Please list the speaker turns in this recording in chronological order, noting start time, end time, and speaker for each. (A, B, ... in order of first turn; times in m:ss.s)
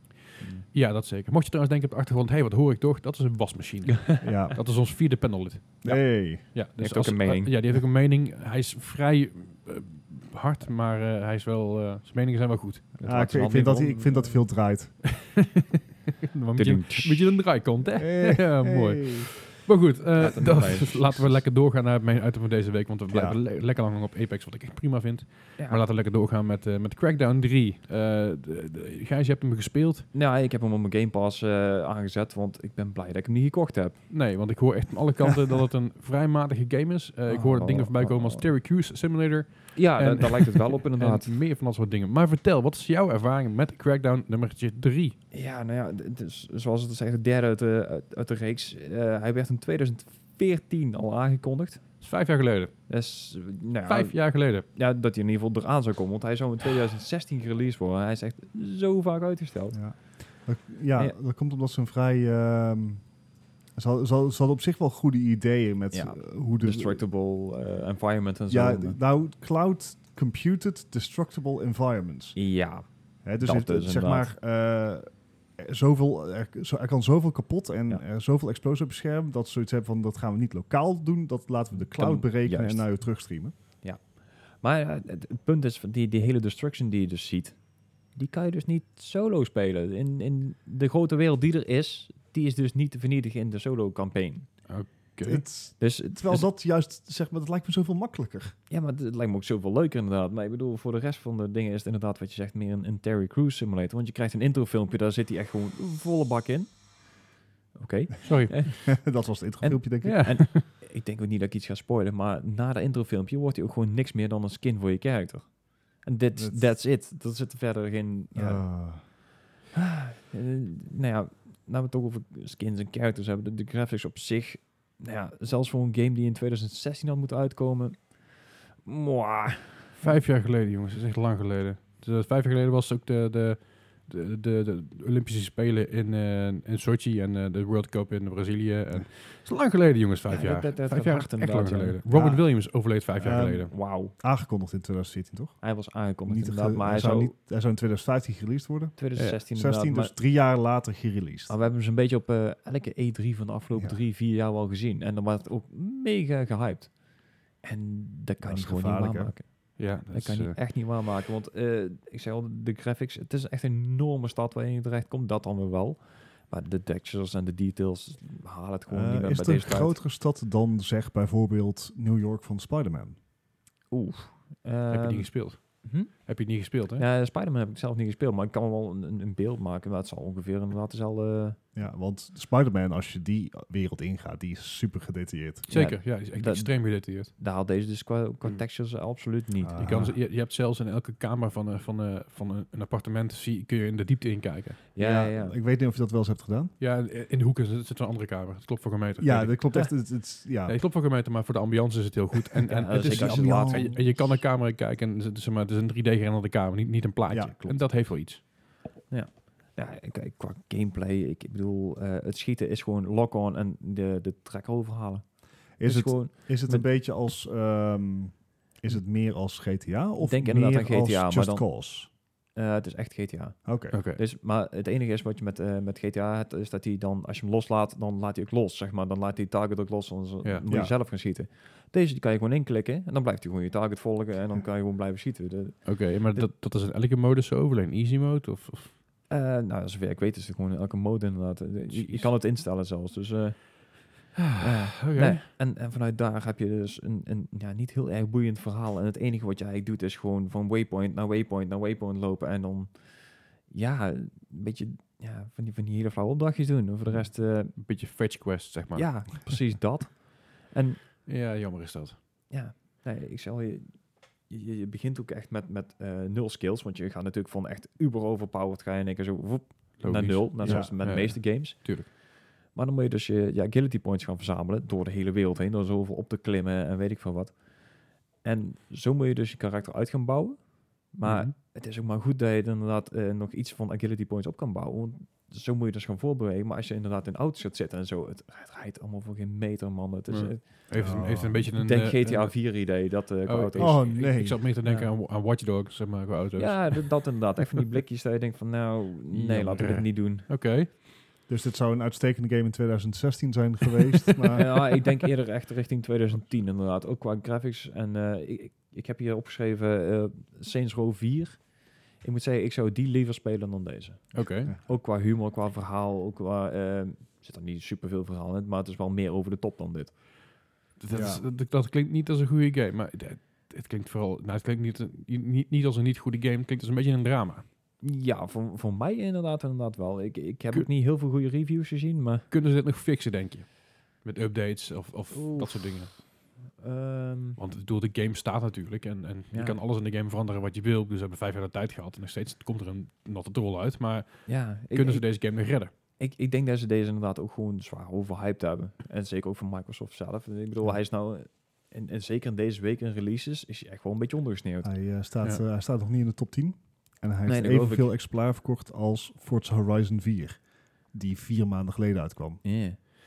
0:00.4-0:00.6 A
0:00.7-0:12.9 B
0:04.2-0:04.6 C
0:05.8-0:06.5 C
0:05.9-0:07.8 A
0:13.0-0:14.4 A
0:13.0-0:15.2 C
0:15.2-0:30.1 B
0:16.6-0:17.4 A
0:18.0-0:19.3 C
0:20.2-0:21.4 A
0:23.1-0:23.4 C
0:30.1-0:34.0 A
0:34.1-0:45.2 B
0:37.3-0:38.5 A
0:39.7-0:41.3 A
0:45.3-0:51.9 A
0:52.0-0:52.7 B
0:52.9-1:00.0 A
0:53.9-0:54.6 B
0:59.7-1:03.0 C
1:03.7-1:07.0 C
1:05.9-1:09.0 A
1:08.5-1:12.4 C
1:12.4-1:12.9 A
1:13.2-1:23.5 C
1:13.4-1:14.3 A
1:21.9-1:23.2 A
1:23.8-1:34.5 A
1:34.7-1:35.4 B
1:35.2-1:38.5 C
1:35.8-1:36.5 A
1:38.7-1:46.9 A
1:47.7-1:59.2 A
1:48.2-1:48.8 B
1:48.8-1:50.3 C
1:50.0-1:50.6 B
1:56.3-1:56.7 C
1:58.3-1:59.0 C
1:59.7-2:10.2 A
2:10.0-2:23.7 B
2:20.3-2:22.0 A
2:22.1-2:25.6 C
2:23.7-2:24.1 A
2:25.6-2:27.3 A
2:26.2-2:31.5 C
2:29.0-2:30.1 A
2:29.2-2:29.4 B
2:31.5-2:50.0 A
2:38.4-2:39.3 C
2:39.8-2:40.6 B
2:48.9-2:53.2 C
2:53.9-2:56.4 A
2:54.9-2:57.0 B
2:57.0-3:01.6 A
3:01.7-3:05.7 C
3:05.7-3:10.1 A
3:05.7-3:07.3 B
3:09.6-3:10.2 C
3:09.8-3:14.8 B
3:14.9-3:15.5 A
3:15.0-3:16.7 C
3:16.8-3:19.8 B
3:19.2-3:20.8 C
3:20.7-3:28.4 B
3:22.7-3:24.1 A
3:23.0-3:24.3 C
3:27.3-3:27.8 C
3:29.1-3:36.9 A
3:35.8-3:42.1 C
3:40.2-3:41.7 A
3:42.5-3:56.5 A
3:43.6-3:44.0 C
3:43.9-3:44.2 B
3:50.7-3:50.9 C
3:55.8-3:58.9 B
3:59.3-4:17.8 A
4:01.9-4:02.3 B
4:04.4-4:05.4 B
4:17.1-4:19.3 B
4:18.9-4:21.1 A
4:21.2-4:22.2 B
4:22.5-4:32.2 A
4:30.0-4:32.1 B
4:30.6-4:31.0 C
4:32.7-4:37.6 A
4:38.3-4:54.2 A
4:41.2-4:41.5 B
4:50.3-4:57.5 B
4:50.9-4:51.8 C
4:53.8-4:54.6 C
4:54.8-4:55.1 A
4:56.6-5:00.5 A
4:59.3-5:00.9 B
5:01.5-5:04.9 C
5:04.4-5:05.0 B
5:04.5-5:20.2 A
5:14.3-5:14.7 B
5:21.0-5:27.6 B
5:21.1-5:21.4 C
5:28.0-5:32.5 A
5:32.5-5:36.1 B
5:35.3-5:37.6 A
5:37.6-5:45.9 B
5:39.5-5:39.8 A
5:44.5-5:45.4 A
5:46.2-5:54.9 A
5:54.8-6:02.6 C
5:57.4-5:58.1 A
6:02.6-6:03.0 A